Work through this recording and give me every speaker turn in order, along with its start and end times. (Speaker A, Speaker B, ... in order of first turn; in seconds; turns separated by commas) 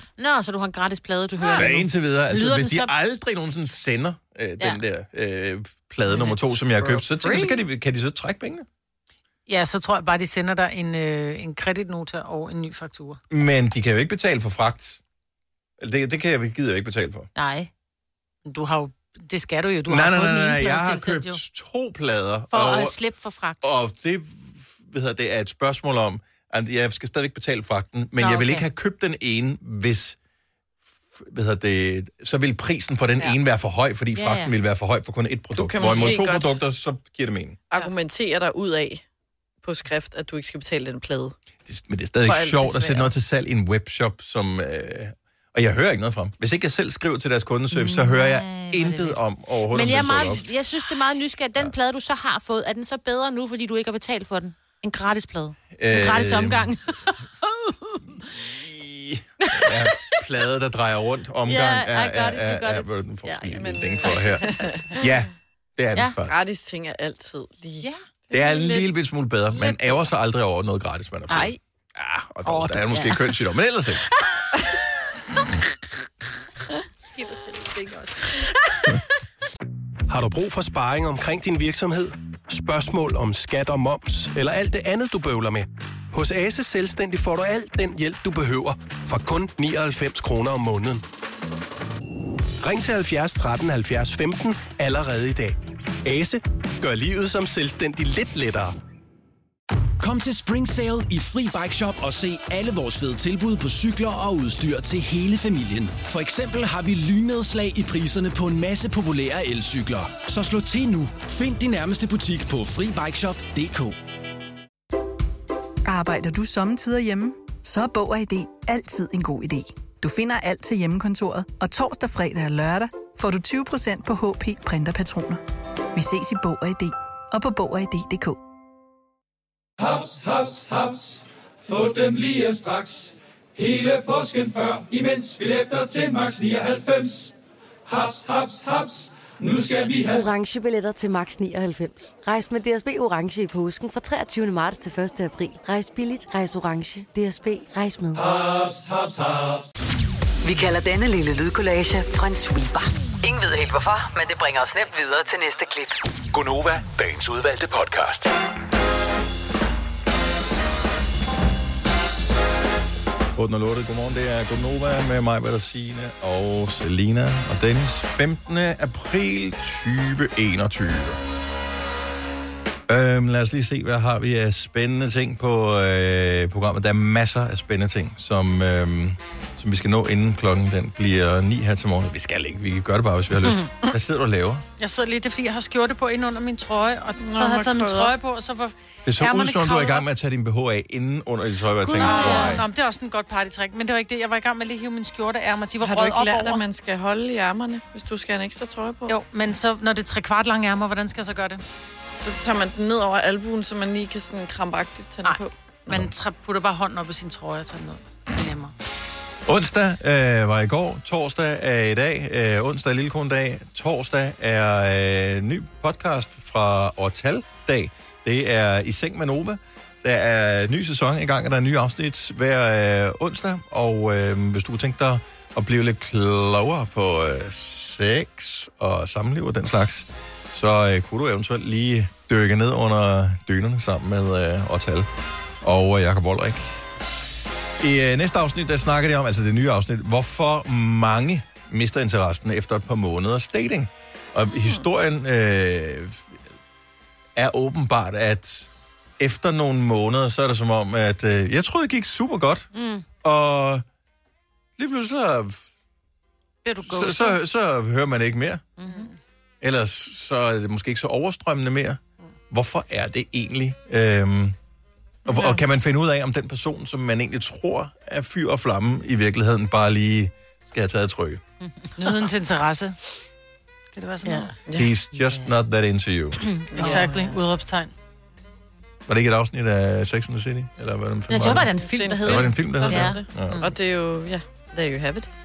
Speaker A: 0.2-3.0, Speaker B: 1.5-8.7, Speaker A: 6.2-7.6, Speaker C: 9.5-13.2, Speaker B: 13.3-15.0, Speaker B: 15.8-17.3, Speaker A: 17.4-17.7, Speaker C: 18.5-21.4, Speaker B: 19.9-22.9, Speaker A: 22.5-23.6, Speaker B: 23.6-30.2, Speaker A: 28.2-28.6, Speaker B: 31.1-37.6, Speaker A: 34.1-34.5, Speaker D: 35.5-36.6, Speaker A: 35.8-36.2, Speaker D: 37.7-39.0, Speaker D: 39.6-41.4, Speaker B: 41.6-50.5, Speaker D: 42.3-43.1, Speaker A: 47.7-58.0, Speaker B: 55.8-56.7, Speaker B: 58.1-66.4, Speaker A: 59.5-59.8, Speaker A: 61.5-65.2, Speaker D: 63.5-65.0, Speaker D: 66.3-68.6, Speaker B: 68.3-74.1, Speaker A: 69.5-70.0, Speaker A: 72.5-73.2, Speaker A: 77.2-79.0, Speaker E: 80.1-91.0, Speaker E: 92.6-98.7, Speaker F: 100.0-114.0, Speaker G: 115.8-125.4, Speaker G: 126.0-128.4, Speaker H: 129.8-137.3, Speaker H: 137.9-140.3, Speaker I: 140.0-148.2, Speaker H: 148.2-149.7, Speaker J: 150.4-156.0, Speaker K: 156.3-158.3, Speaker B: 163.3-171.2, Speaker B: 172.9-184.6, Speaker A: 183.4-183.7, Speaker C: 184.8-190.1, Speaker D: 187.2-188.1, Speaker B: 189.1-192.6, Speaker A: 191.9-192.6, Speaker C: 192.0-196.6, Speaker D: 195.8-199.2, Speaker C: 199.1-201.6, Speaker D: 202.2-206.1, Speaker C: 205.2-208.7, Speaker B: 209.5-235.1, Speaker B: 235.6-236.8, Speaker B: 237.8-246.4, Speaker B: 247.4-252.7, Speaker A: 252.7-253.1, Speaker B: 253.2-253.8, Speaker B: 254.8-255.7, Speaker A: 256.6-257.4, Speaker B: 256.8-258.6, Speaker A: 258.8-259.1, Speaker C: 258.9-259.1, Speaker B: 259.6-264.6, Speaker B: 265.3-271.4, Speaker D: 265.3-265.6, Speaker A: 271.6-271.9, Speaker C: 272.0-273.0, Speaker C: 273.9-274.5, Speaker A: 274.2-274.5, Speaker B: 274.8-276.5, Speaker A: 275.1-275.5, Speaker A: 276.4-277.3, Speaker D: 276.7-277.1, Speaker C: 276.8-277.9, Speaker B: 279.1-283.7, Speaker A: 281.3-283.2, Speaker D: 281.4-285.3